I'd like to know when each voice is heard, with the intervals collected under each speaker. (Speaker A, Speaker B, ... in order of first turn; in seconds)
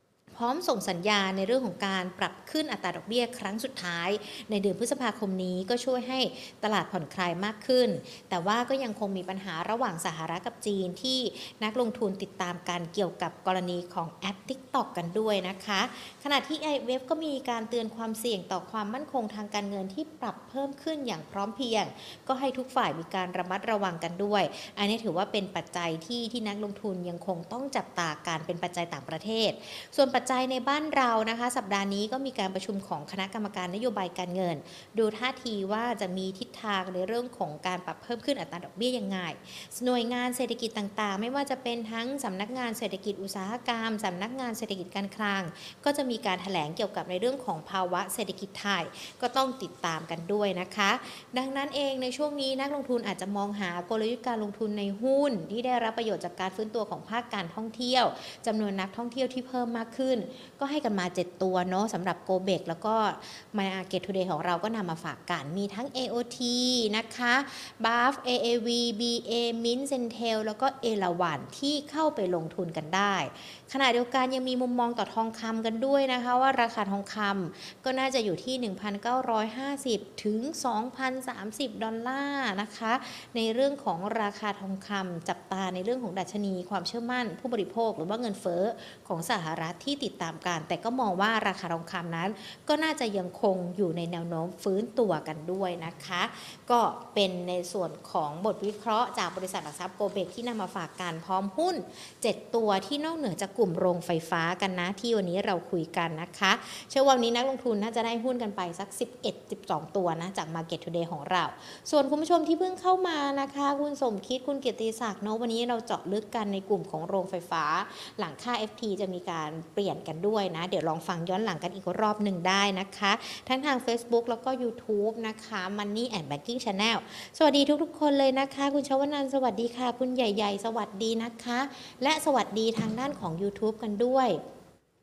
Speaker A: 0.3-134.4